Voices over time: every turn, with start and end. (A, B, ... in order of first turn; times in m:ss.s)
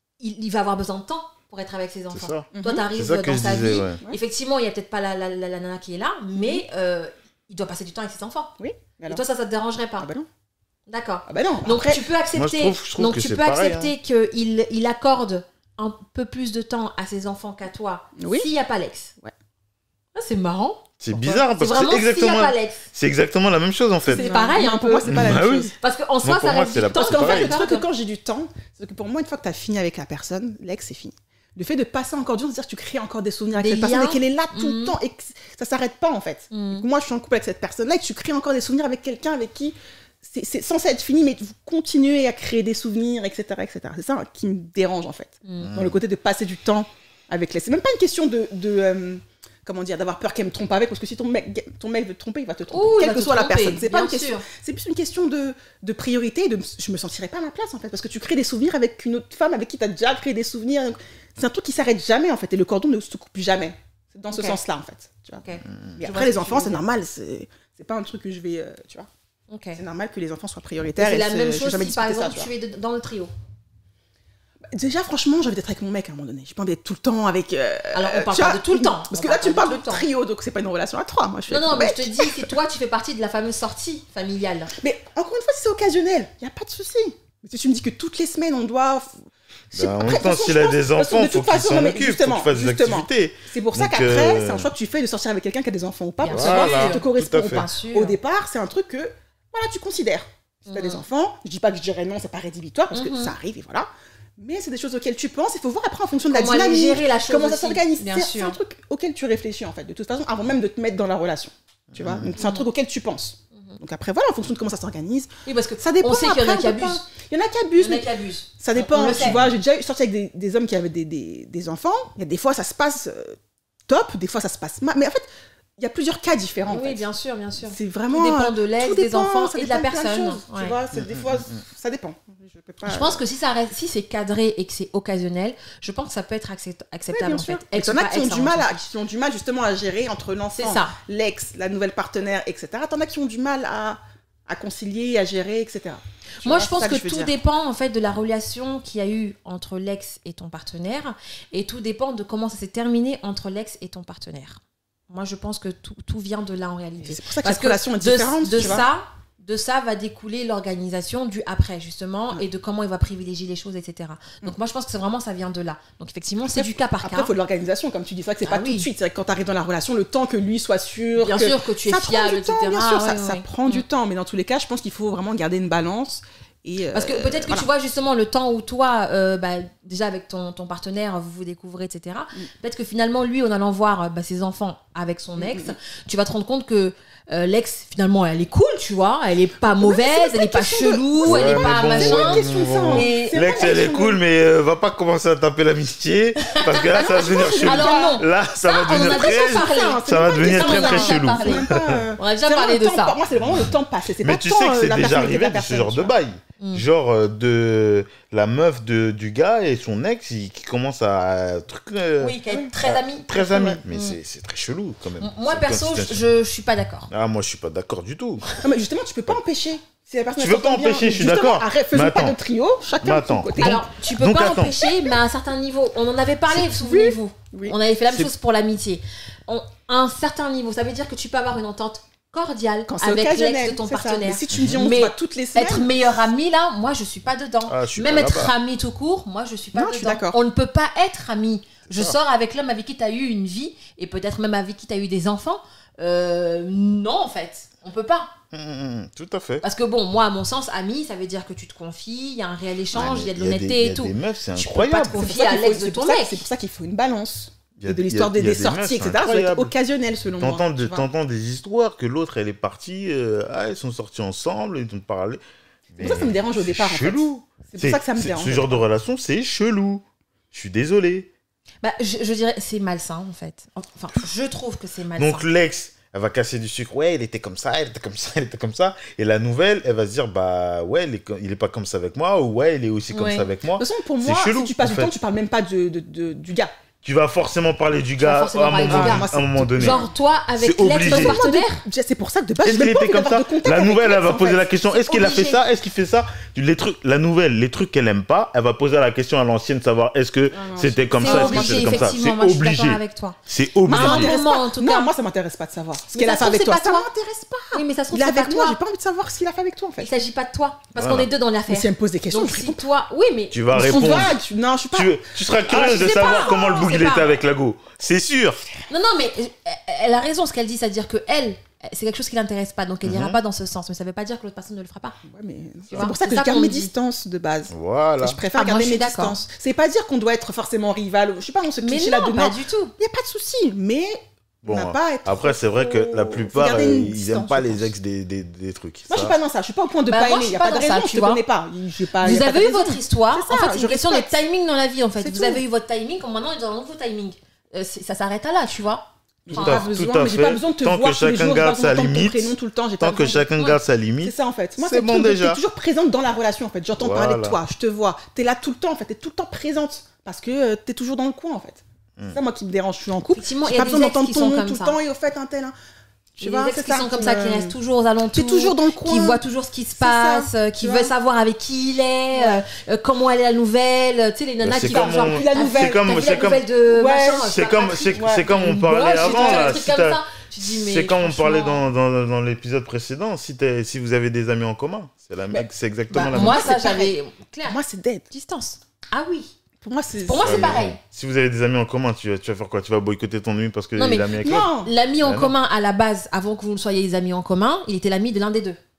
0:00.2-0:08.5 A
0:02.1-0:04.0 B
0:02.5-0:02.9 C
0:06.4-0:06.6 C
0:08.6-0:09.2 C
0:09.1-0:10.1 A
0:10.0-0:10.3 C
0:10.9-0:19.1 A
0:11.3-0:12.0 C
0:12.3-0:13.9 B
0:18.2-0:18.5 C
0:20.1-0:22.8 A
0:21.0-0:24.3 B
0:24.1-0:27.8 A
0:24.1-0:25.7 C
0:25.1-0:25.7 B
0:26.2-0:27.5 B
0:26.9-1:05.4 C
0:33.5-0:34.9 A
0:36.5-0:36.8 A
0:45.4-0:45.7 A
0:45.6-0:46.0 B
0:52.7-0:54.4 A
1:04.3-1:04.6 A
1:05.4-1:06.8 A
1:06.0-1:09.1 C
1:09.5-1:09.8 A
1:09.8-1:12.5 C
1:11.0-1:13.3 A
1:14.7-1:22.5 C
1:17.9-1:20.0 A
1:21.5-1:24.7 A
1:24.8-1:29.1 C
1:29.7-1:58.1 C
1:29.7-1:34.7 B
1:36.2-1:38.2 A
1:36.3-1:37.7 B
1:40.7-1:41.0 A
1:42.9-1:43.3 A
1:46.3-1:48.6 A
1:51.9-1:52.3 B
1:52.4-1:52.6 A
1:55.4-1:57.0 A
1:57.8-1:59.5 A
1:58.6-2:03.4 C
2:03.9-2:05.3 C
2:05.8-2:07.0 C
2:06.7-2:10.7 A
2:07.6-2:13.2 C
2:11.0-2:11.2 B
2:12.8-2:18.8 A
2:17.1-2:27.3 C
2:20.5-2:21.0 A
2:26.4-2:47.3 A
2:37.0-2:38.8 C
2:46.5-2:57.7 C
2:48.4-2:48.9 A
2:51.2-2:53.8 A
2:56.9-3:13.4 A
3:05.4-3:05.7 C
3:09.6-3:14.2 C
3:11.2-3:22.0 B
3:16.4-3:23.2 A
3:16.9-3:18.2 C
3:18.9-3:26.1 C
3:24.2-3:36.2 B
3:32.2-3:34.2 A
3:33.4-3:33.8 C
3:35.2-3:37.1 A
3:37.1-3:38.5 B
3:38.6-3:43.8 C
3:40.4-3:42.4 B
3:43.0-3:44.8 B
3:43.6-4:08.3 A
3:46.5-3:47.7 C
3:52.9-3:55.9 C
3:54.5-3:54.8 B
3:57.7-3:58.5 B
3:59.7-4:00.4 C
4:01.9-4:02.1 B
4:08.5-4:09.6 B
4:09.6-4:16.4 A
4:12.9-4:15.2 B
4:15.1-4:21.1 C
4:17.8-4:19.7 B
4:20.4-4:31.3 B
4:26.0-4:28.8 C
4:31.8-4:35.4 A
4:35.2-4:45.1 B
4:43.1-4:43.5 A
4:43.8-4:46.7 C
4:47.0-4:50.0 B
4:48.2-4:51.8 A
4:48.8-4:50.1 C
4:50.6-4:51.4 B
4:51.0-4:54.7 C
4:52.6-5:04.3 B
4:54.9-4:55.6 A
5:00.5-5:02.2 C
5:01.2-5:05.1 A
5:03.8-5:10.1 C
5:06.1-5:07.1 A
5:07.7-5:08.8 A
5:10.0-5:14.3 A
5:10.9-5:11.3 B
5:11.7-5:12.8 C
5:13.5-5:14.4 B
5:13.7-5:16.7 C
5:14.9-5:18.6 B
5:15.7-5:17.3 A
5:18.9-5:25.2 A
5:23.0-5:23.4 B
5:25.2-5:37.9 C
5:25.9-5:26.9 A
5:27.7-5:28.4 B
5:28.5-5:29.4 A
5:31.8-5:32.9 A
5:34.6-5:39.3 B
5:39.1-5:44.3 C
5:40.1-5:41.4 A
5:42.2-5:49.9 A
5:45.2-5:45.6 C
5:49.4-5:53.5 C
5:49.5-5:55.6 B
5:54.2-6:05.7 C
5:57.0-5:57.6 B
6:03.3-6:05.0 A
6:06.4-6:07.7 C
6:06.4-6:21.8 A
6:08.3-6:09.4 C
6:10.0-6:11.1 C
6:12.3-6:12.6 C
6:14.6-6:16.6 B
6:14.8-6:17.6 C
6:17.4-6:26.8 B
6:18.1-6:19.8 C
6:25.5-6:28.3 C
6:26.1-6:27.8 A
6:28.3-6:29.5 A
6:29.8-6:30.8 C
6:30.2-6:31.0 A
6:30.4-6:35.5 B
6:34.0-6:38.8 A
6:34.4-6:34.9 C